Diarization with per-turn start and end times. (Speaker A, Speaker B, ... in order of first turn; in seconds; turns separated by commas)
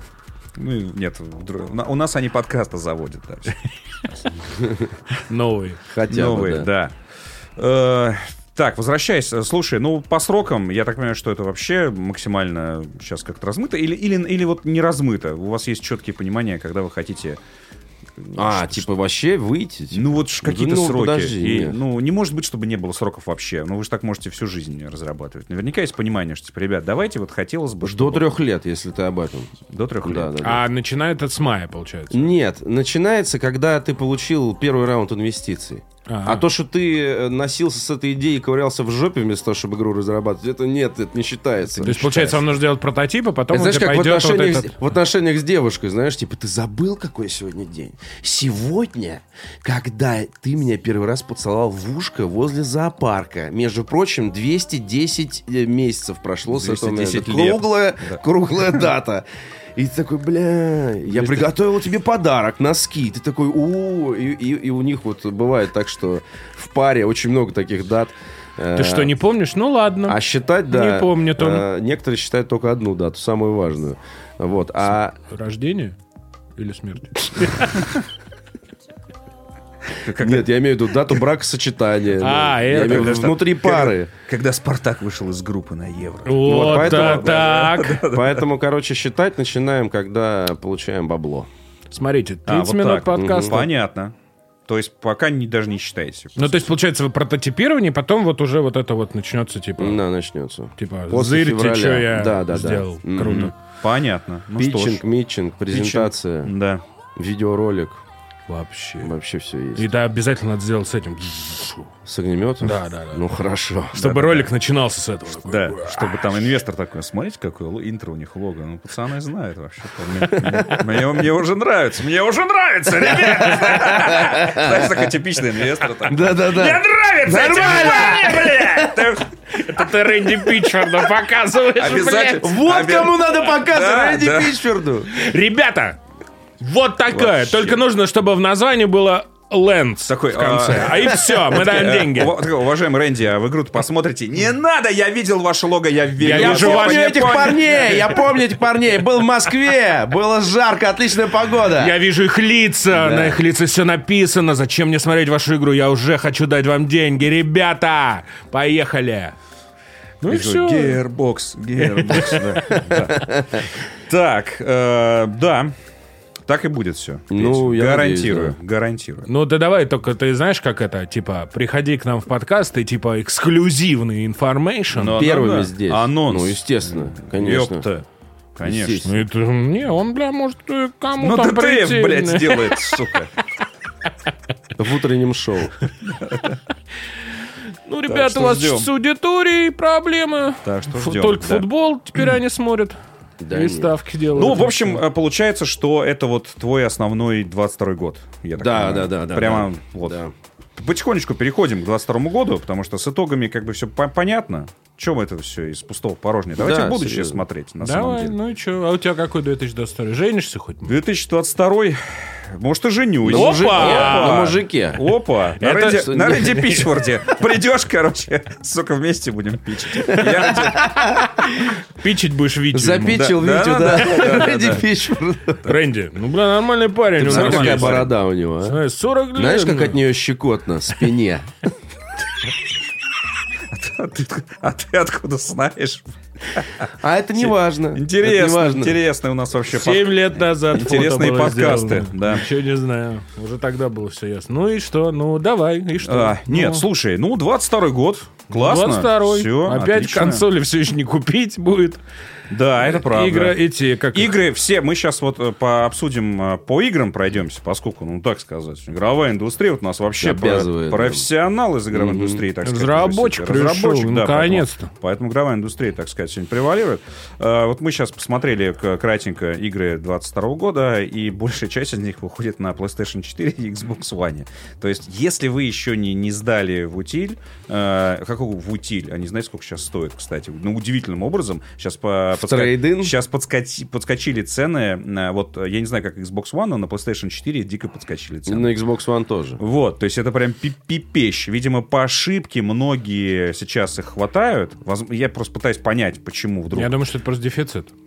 Speaker A: 0.6-4.4, Speaker B: 4.5-4.9, Speaker C: 5.3-5.8, Speaker B: 5.8-6.7, Speaker A: 6.1-6.9, Speaker A: 7.6-17.4, Speaker A: 18.2-18.9, Speaker B: 18.4-21.8, Speaker A: 19.9-28.3, Speaker B: 27.8-30.6, Speaker A: 29.7-30.4, Speaker C: 30.4-32.3, Speaker B: 32.1-42.5, Speaker C: 36.1-36.5, Speaker C: 41.8-44.7, Speaker B: 43.5-59.2, Speaker A: 56.5-58.2, Speaker B: 59.8-69.1, Speaker C: 61.1-61.4, Speaker C: 68.7-71.7, Speaker B: 70.1-75.2, Speaker C: 75.3-76.0, Speaker C: 76.6-77.9, Speaker A: 79.9-80.5, Speaker B: 80.2-84.1, Speaker C: 82.2-83.2, Speaker A: 82.7-88.4, Speaker C: 86.2-88.0, Speaker B: 86.4-91.5, Speaker C: 91.9-93.6, Speaker A: 92.5-94.1, Speaker B: 93.2-93.7, Speaker A: 94.7-96.7, Speaker C: 96.4-100.0, Speaker B: 99.8-103.5, Speaker C: 100.8-103.5, Speaker A: 103.2-105.0, Speaker B: 104.6-106.5, Speaker A: 105.7-106.8, Speaker B: 107.2-108.0, Speaker C: 108.5-109.1, Speaker B: 109.0-109.9, Speaker C: 109.8-111.9, Speaker B: 112.0-114.2, Speaker C: 112.6-113.2, Speaker C: 113.9-116.3, Speaker A: 114.0-114.5, Speaker A: 115.5-130.9, Speaker B: 120.3-120.8, Speaker B: 123.7-125.0, Speaker B: 126.0-129.1, Speaker C: 127.3-128.4, Speaker C: 129.5-132.6, Speaker A: 131.8-134.7, Speaker B: 132.3-135.1, Speaker C: 135.1-136.0, Speaker C: 136.6-142.4, Speaker A: 137.1-137.8, Speaker A: 140.1-148.2, Speaker C: 146.2-147.9, Speaker B: 146.3-152.0, Speaker C: 151.8-159.3, Speaker B: 152.9-153.4, Speaker C: 160.2-161.0, Speaker A: 160.3-165.7, Speaker C: 161.8-163.2, Speaker B: 163.2-163.6, Speaker A: 166.5-169.3, Speaker B: 167.3-168.6, Speaker C: 169.3-175.2, Speaker A: 174.9-179.1, Speaker B: 175.2-177.9, Speaker B: 178.6-179.2, Speaker C: 179.1-183.1, Speaker A: 181.2-183.3, Speaker B: 184.8-185.8, Speaker A: 186.1-186.6, Speaker C: 187.9-193.0, Speaker A: 188.1-188.9, Speaker A: 190.6-191.7, Speaker B: 193.4-193.9, Speaker C: 193.5-195.0, Speaker A: 194.3-200.2, Speaker B: 198.6-200.3, Speaker A: 200.8-208.4, Speaker B: 206.6-207.4, Speaker C: 207.8-211.0, Speaker A: 210.9-220.9, Speaker B: 213.2-215.2, Speaker C: 213.3-214.5, Speaker C: 215.6-216.4, Speaker B: 215.9-217.0, Speaker B: 220.0-221.7, Speaker C: 221.4-223.3, Speaker B: 222.7-225.7, Speaker A: 223.1-224.9, Speaker C: 225.6-228.1, Speaker B: 227.2-228.8, Speaker A: 227.2-228.1, Speaker C: 228.6-230.0, Speaker B: 229.3-231.5, Speaker A: 233.7-236.8, Speaker B: 236.9-239.0, Speaker A: 237.4-242.5, Speaker C: 239.7-246.9, Speaker A: 246.0-250.4, Speaker C: 248.5-252.0, Speaker A: 252.5-253.6, Speaker C: 252.8-254.3, Speaker A: 254.1-288.7, Speaker B: 260.2-261.3, Speaker B: 261.9-262.4, Speaker C: 262.6-264.9, Speaker B: 282.3-283.2, Speaker B: 288.5-289.6, Speaker A: 289.6-297.0, Speaker C: 296.7-297.9